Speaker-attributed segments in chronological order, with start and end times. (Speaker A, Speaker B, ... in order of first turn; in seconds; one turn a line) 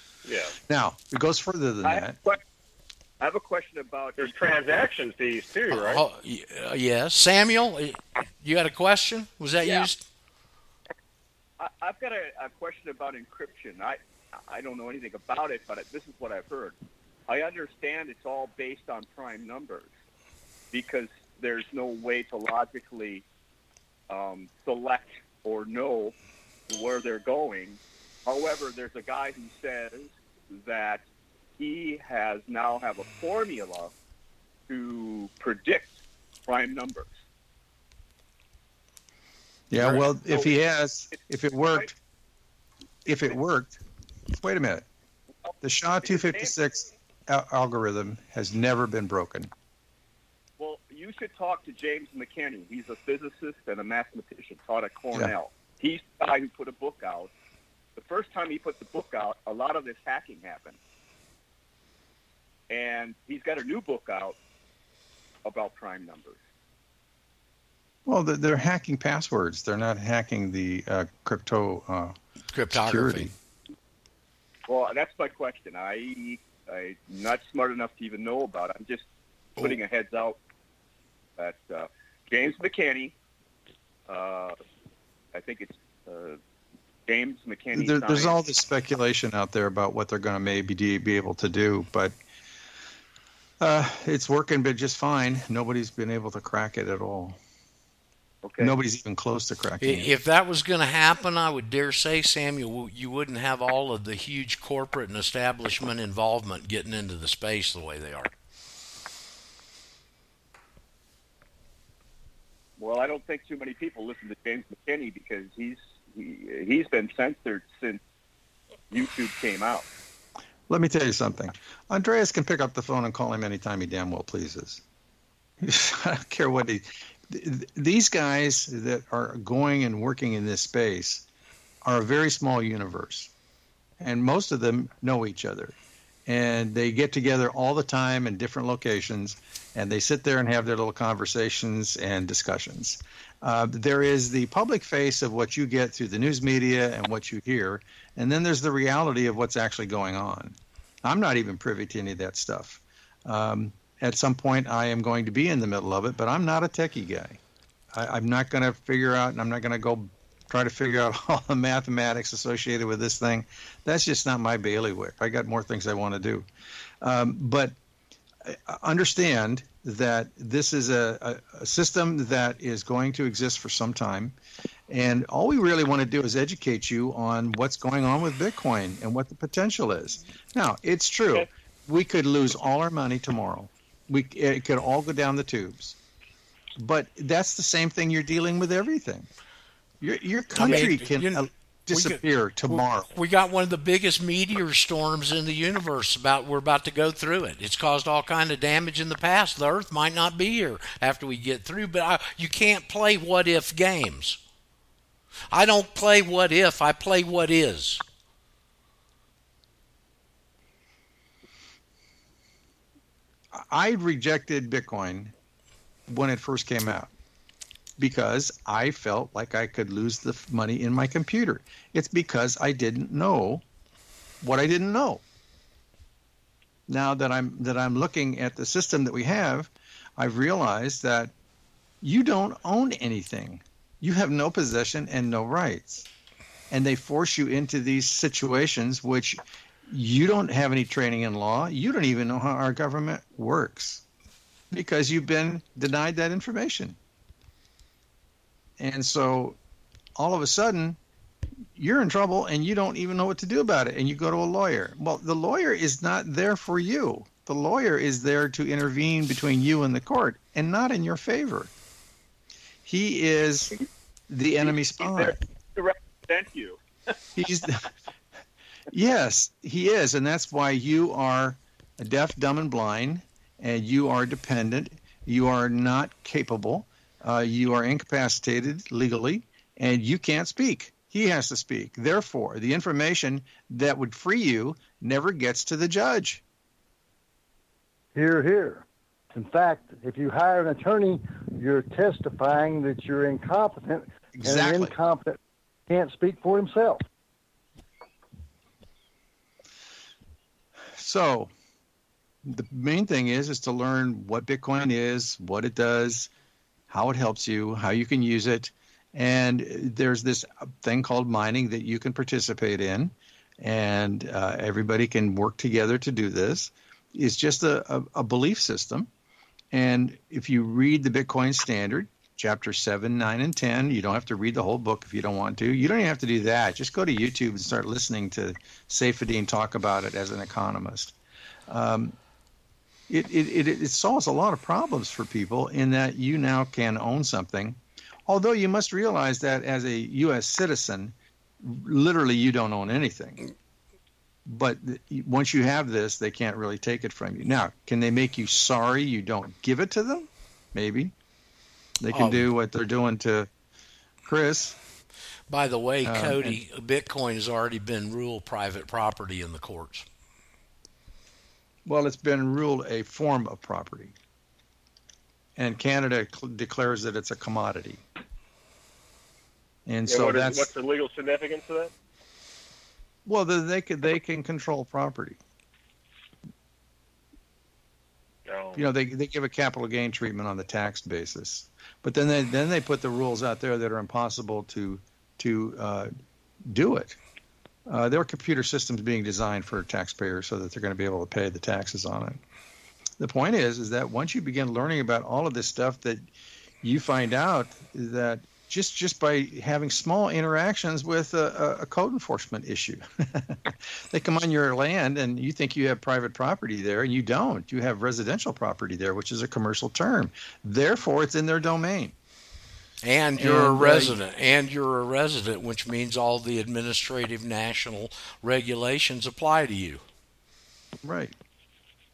Speaker A: 0.2-0.5
Speaker B: 0.7-2.2
Speaker C: 1.8-2.4
Speaker C: 3.2-4.5
Speaker A: 4.2-6.0
Speaker D: 5.7-10.0
Speaker C: 9.6-9.9
Speaker C: 11.6-16.8
Speaker C: 17.3-19.9
Speaker C: 20.7-23.2
Speaker C: 24.1-26.1
Speaker C: 26.7-31.0
Speaker C: 31.6-33.9
Speaker C: 34.7-35.9
Speaker C: 36.5-37.1
Speaker B: 39.7-41.9
Speaker D: 39.8-40.0
Speaker C: 40.3-40.5
Speaker C: 41.1-41.9
Speaker B: 43.0-43.8
Speaker B: 44.3-44.9
Speaker C: 45.5-46.5
Speaker B: 45.6-49.5
Speaker C: 50.6-57.3
Speaker C: 58.0-60.8
Speaker C: 62.7-64.4
Speaker C: 65.4-66.4
Speaker B: 68.0-72.2
Speaker D: 72.5-73.3
Speaker B: 72.7-73.3
Speaker C: 74.7-80.4
Speaker C: 81.4-83.1
Speaker C: 84.1-84.5
Speaker C: 85.3-86.4
Speaker C: 87.1-88.4
Speaker B: 87.7-92.2
Speaker B: 93.6-97.4
Speaker C: 98.4-98.7
Speaker B: 98.6-100.1
Speaker D: 99.8-108.3
Speaker C: 112.8-118.0
Speaker C: 118.9-119.9
Speaker B: 120.7-124.8
Speaker B: 125.6-131.2
Speaker B: 131.8-133.3
Speaker B: 134.0-135.8
Speaker B: 136.3-157.4
Speaker B: 157.9-166.5
Speaker B: 167.0-167.8
Speaker B: 168.4-174.3
Speaker B: 174.9-186.0
Speaker B: 186.8-189.3
Speaker B: 190.0-193.1
Speaker D: 190.5-204.4
Speaker D: 205.5-208.0
Speaker B: 213.5-215.3
Speaker B: 216.1-217.1
Speaker B: 218.0-223.6
Speaker B: 224.4-225.2
Speaker B: 226.9-231.3
Speaker B: 232.0-236.1
Speaker B: 236.7-244.0
Speaker B: 244.7-247.0
Speaker B: 248.8-249.6
Speaker B: 250.2-251.0
Speaker B: 251.7-261.7
Speaker B: 262.8-263.7
Speaker B: 264.3-265.4
Speaker C: 264.6-266.8
Speaker B: 267.4-267.9
Speaker B: 268.9-286.4
Speaker E: 288.1-295.4
Speaker B: 294.3-294.9
Speaker E: 295.9-297.0
Speaker B: 301.0-301.5
Speaker B: 302.4-306.3
Speaker B: 306.9-319.1
Speaker B: 319.7-331.1
Speaker B: 331.7-332.1
Speaker B: 333.1-343.4
Speaker B: 344.4-351.1
Speaker B: 352.0-353.5
Speaker D: 352.1-352.5
Speaker B: 354.2-354.8
Speaker D: 355.5-360.1
Speaker B: 356.0-356.6
Speaker B: 361.9-364.1
Speaker B: 365.6-368.0
Speaker B: 369.9-370.7
Speaker A: 370.1-371.9
Speaker B: 373.2-375.4
Speaker A: 378.5-378.8
Speaker B: 378.8-386.1
Speaker B: 386.7-387.2
Speaker B: 387.9-392.4
Speaker B: 393.2-396.2
Speaker B: 396.8-412.1
Speaker D: 413.0-420.0
Speaker B: 413.4-414.2
Speaker B: 421.0-421.3